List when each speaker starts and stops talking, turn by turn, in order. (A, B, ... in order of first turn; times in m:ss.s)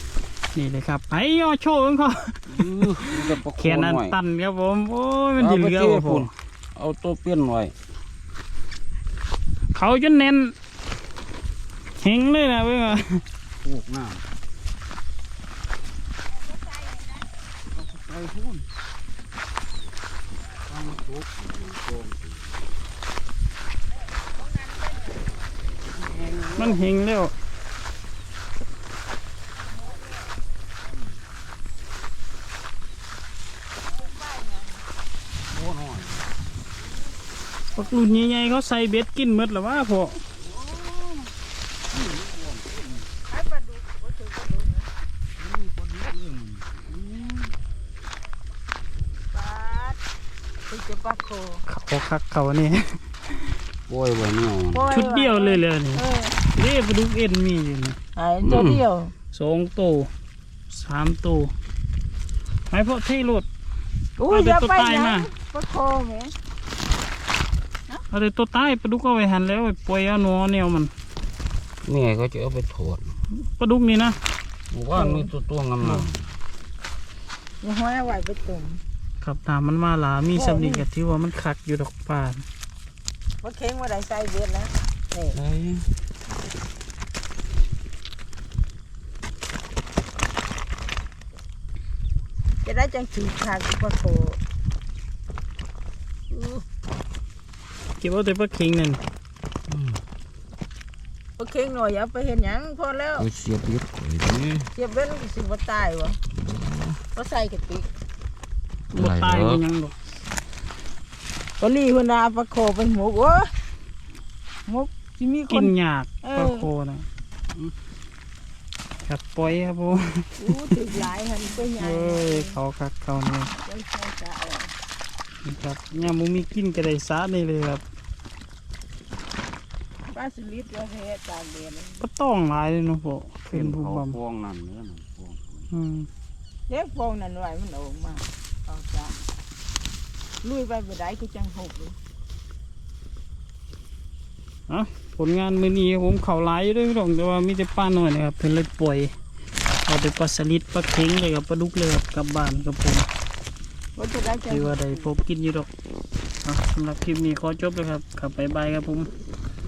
0:00.5-0:06.3 A
0:02.5-0:04.2 B
0:05.4-0:07.7 B
0:09.7-0:10.5 A
0:12.0-0:13.2 A
0:13.6-0:14.2 B
0:16.6-0:17.2 C
0:17.7-0:18.6 B
0:20.7-0:22.4 B
0:24.6-0:25.2 C
0:25.9-0:26.8 B
0:26.5-0:27.3 A
0:33.9-0:34.8 C
0:35.5-0:36.3 B
0:37.7-0:40.2 A
0:40.4-0:41.3 B
0:41.9-0:43.1 B
0:43.3-0:44.9 C
0:45.4-0:47.5 B
0:49.3-0:50.0 C
0:50.7-0:51.6 C
0:51.7-0:53.6 A
0:53.9-0:54.9 B
0:54.7-0:56.4 C
0:54.9-0:58.0 A
0:58.2-0:59.1 C
0:58.4-0:58.8 B
0:59.3-1:00.1 A
1:00.7-1:01.5 A
1:02.7-1:03.5 A
1:04.2-1:06.3 C
1:04.3-1:05.3 A
1:08.1-1:10.9 A
1:11.8-1:13.1 B
1:13.3-1:14.2 A
1:14.7-1:16.3 B
1:14.9-1:15.3 C
1:15.8-1:16.1 A
1:17.6-1:18.8 C
1:19.2-1:22.4 A
1:20.3-1:20.8 C
1:23.4-1:25.4 C
1:25.3-1:25.9 B
1:32.6-1:34.4 C
1:36.3-1:36.6 C
1:38.0-1:39.0 A
1:39.7-1:40.0 B
1:41.4-1:43.3 C
1:43.2-1:44.7 B
1:44.7-1:46.2 C
1:46.3-1:47.0 B
1:47.1-1:47.9 C
1:48.9-1:49.9 A
1:48.9-1:49.6 B
1:51.6-1:53.5 C
1:54.7-1:56.7 C
1:55.5-1:57.0 A
1:59.0-2:00.8 A
2:00.4-2:02.6 C
2:01.8-2:03.5 A
2:03.5-2:04.7 C
2:05.4-2:07.8 A
2:10.1-2:12.0 C
2:12.0-2:14.2 A
2:13.5-2:15.6 B
2:15.7-2:16.1 A
2:16.7-2:19.2 C
2:20.4-2:22.0 C
2:24.7-2:29.1 A
2:29.8-2:33.1 A
2:34.0-2:35.1 C
2:34.5-2:35.7 A
2:36.4-2:39.1 A